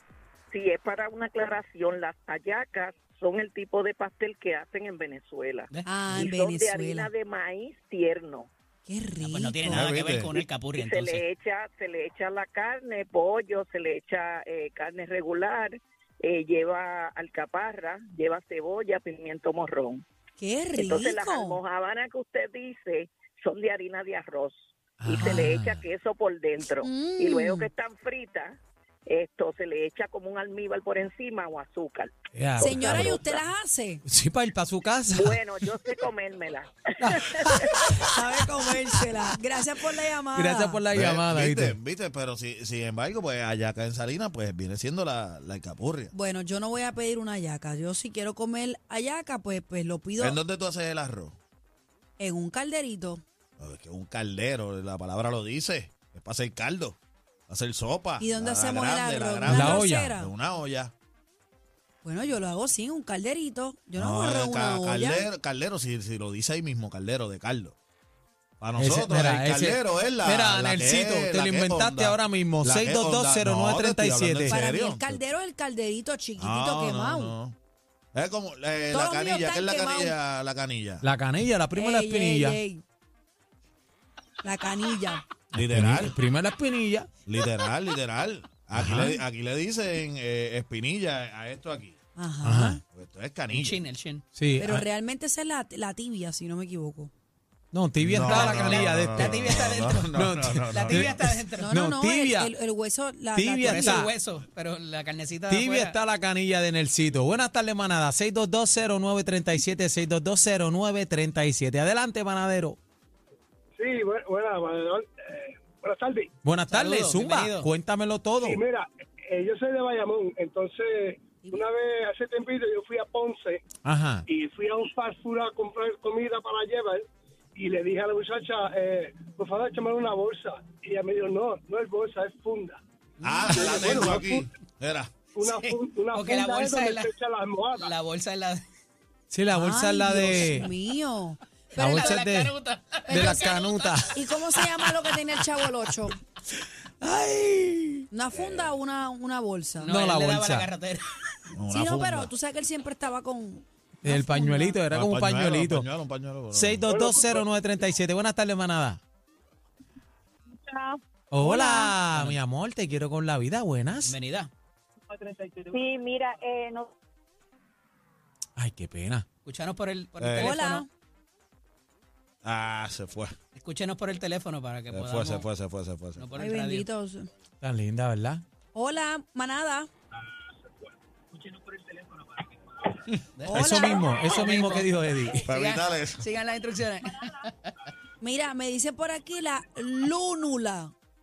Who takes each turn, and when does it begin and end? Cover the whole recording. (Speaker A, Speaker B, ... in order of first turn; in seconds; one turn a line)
Speaker A: 0.5-8.5
Speaker B: 5.7-6.1
Speaker C: 5.8-7.1
Speaker C: 8.8-9.8
Speaker B: 9.2-11.2
Speaker D: 9.7-10.3
Speaker A: 10.3-20.0
Speaker C: 20.4-21.6
Speaker A: 20.8-33.4
Speaker E: 25.0-25.8
Speaker C: 26.8-27.7
Speaker E: 32.3-33.2
Speaker C: 32.6-34.0
Speaker E: 34.0-35.7
Speaker A: 35.1-37.7
Speaker E: 37.0-38.1
Speaker C: 38.0-40.8
Speaker E: 40.3-41.7
Speaker D: 40.9-46.1
Speaker C: 46.1-50.4
Speaker D: 50.2-51.4
Speaker C: 52.2-53.2
Speaker D: 53.6-57.0
Speaker D: 57.5-60.9
Speaker C: 58.2-60.3
Speaker E: 59.5-60.1
Speaker C: 62.0-65.2
Speaker D: 63.9-67.7
Speaker D: 68.6-75.2
Speaker E: 68.8-74.6
Speaker C: 74.5-77.3
Speaker D: 76.4-77.5
Speaker D: 78.1-81.0
Speaker C: 78.9-80.2
Speaker E: 81.0-82.6
Speaker C: 81.7-82.8
Speaker C: 84.4-85.2
Speaker D: 85.5-86.1
Speaker E: 85.5-87.1
Speaker D: 87.2-92.0
Speaker E: 88.7-89.2
Speaker C: 92.2-92.8
Speaker E: 92.4-92.8
Speaker D: 92.9-93.8
Speaker B: 93.5-94.2
Speaker E: 94.3-94.8
Speaker C: 94.6-97.1
Speaker E: 97.7-102.5
Speaker D: 98.0-101.2
Speaker B: 98.2-100.2
Speaker B: 100.7-101.7
Speaker C: 101.6-104.1
Speaker E: 103.3-104.1
Speaker B: 103.6-106.0
Speaker E: 105.5-112.8
Speaker F: 113.8-116.3
Speaker E: 116.4-118.6
Speaker B: 116.7-117.7
Speaker F: 118.4-123.6
Speaker E: 123.8-124.2
Speaker F: 124.3-127.0
Speaker F: 127.5-132.8
Speaker B: 133.2-134.2
Speaker D: 133.2-135.1
Speaker F: 133.5-134.4
Speaker B: 135.4-138.6
Speaker F: 135.4-137.9
Speaker E: 139.3-140.7
Speaker C: 139.5-142.2
Speaker B: 141.7-143.9
Speaker E: 141.8-142.5
Speaker C: 143.1-143.6
Speaker E: 143.1-144.6
Speaker C: 144.1-146.2
Speaker E: 146.6-148.1
Speaker C: 148.1-149.9
Speaker D: 148.3-148.7
Speaker B: 149.8-151.1
Speaker E: 149.9-150.7
Speaker D: 151.5-152.3
Speaker C: 151.7-154.8
Speaker E: 154.0-155.9
Speaker D: 154.9-156.8
Speaker E: 156.5-159.0
Speaker F: 156.9-157.4
Speaker G: 160.5-161.0
Speaker E: 161.3-164.1
Speaker C: 161.4-161.9
Speaker B: 163.9-164.5
Speaker G: 165.1-166.9
Speaker E: 168.6-169.2
Speaker B: 169.4-170.8
Speaker D: 170.2-170.6
Speaker C: 170.4-170.9
Speaker D: 172.4-173.3
Speaker B: 173.5-175.5
Speaker D: 174.9-176.3
Speaker B: 176.2-176.8
Speaker C: 176.4-177.3
Speaker E: 177.6-178.4
Speaker C: 178.7-179.9
Speaker B: 181.3-182.5
Speaker B: 183.3-187.9
Speaker C: 183.5-184.2
Speaker E: 183.5-185.5
Speaker D: 185.5-186.3
Speaker C: 188.2-190.9